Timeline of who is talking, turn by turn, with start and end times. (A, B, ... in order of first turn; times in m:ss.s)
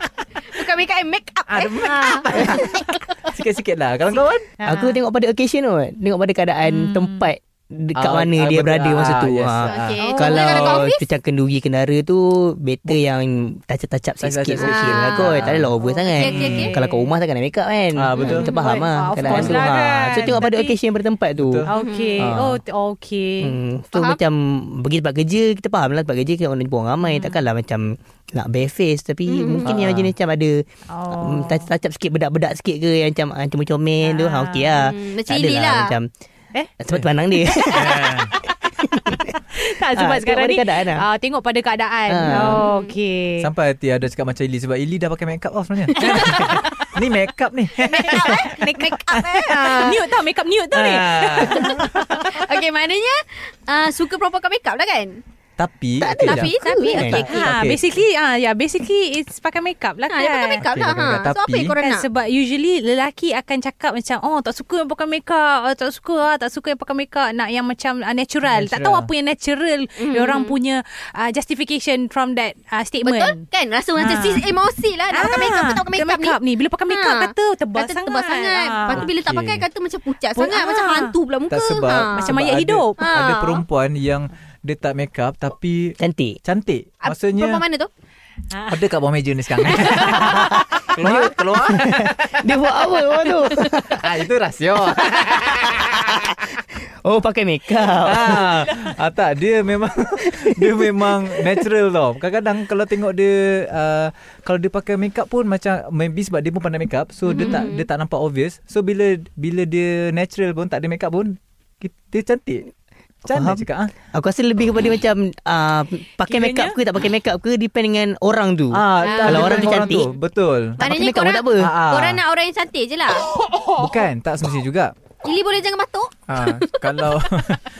0:00.4-0:03.0 A
0:01.5-0:04.5 B
0:04.6-0:05.0 C
0:04.6-0:21.6 D
0:06.6-0:07.3 C
0:08.0-0:10.0 B
0:09.6-0:11.0 A
0:10.0-0:10.8 C
0:14.2-0:15.7 B
0:14.6-0:15.4 A
0:15.9-0:16.9 C
0:16.1-0:16.7 A
0:16.2-0:16.7 B
0:18.0-0:18.5 B
0:18.2-0:20.8 C
0:18.2-0:18.7 A
0:19.2-0:20.4 B
0:21.4-0:22.6 B
0:21.7-0:23.6 C
0:21.7-0:22.2 A
0:23.4-0:36.1 D
0:23.9-0:24.2 A
0:27.0-0:27.4 C
0:29.3-0:29.6 A
0:29.6-0:30.1 B
0:30.9-0:31.7 C
0:34.0-0:34.9 C
0:34.8-0:35.9 A
0:36.8-0:39.4 D
0:37.5-0:43.5 C
0:37.7-0:38.3 B
0:39.9-0:41.0 D
0:42.1-0:42.6 D
0:42.5-0:42.9 A
0:43.4-0:48.5 B
0:46.0-0:46.6 C
0:46.0-0:46.6 A
0:47.8-0:50.0 A
0:48.0-0:52.3 C
0:50.7-0:52.4 B
0:51.5-0:55.2 A
0:55.6-0:57.8 B
0:56.0-0:57.3 D
0:56.1-0:57.5 A
0:56.9-1:00.6 C
1:00.1-1:02.0 A
1:00.6-1:01.7 B
1:01.8-1:13.4 C
1:08.5-1:09.1 B
1:10.0-1:10.5 A
1:13.0-1:16.4 A
1:14.0-1:14.5 C
1:15.1-1:19.1 C
1:16.9-1:22.3 A
1:18.9-1:19.6 B
1:20.4-1:21.1 C
1:21.5-1:27.6 B
1:22.1-1:23.1 C
1:23.0-1:23.6 A
1:26.0-1:26.4 D
1:27.0-1:27.9 A
1:28.5-1:28.8 C
1:28.7-1:32.6 B
1:29.6-1:30.3 A
1:30.2-1:34.1 D
1:33.9-1:36.3 B
1:35.0-1:38.7 D
1:38.0-1:52.7 B
1:40.2-1:41.6 D
1:47.3-1:47.8 A
1:47.4-1:47.7 C
1:53.2-1:53.9 B
1:53.3-2:00.1 D
1:56.2-1:56.8 C
1:58.7-2:00.8 B
1:59.0-2:00.0 A
2:00.8-2:01.7 D
2:00.8-2:03.2 A
2:01.6-2:02.2 B
2:03.8-2:04.9 B
2:05.2-2:07.1 A
2:06.3-2:07.7 B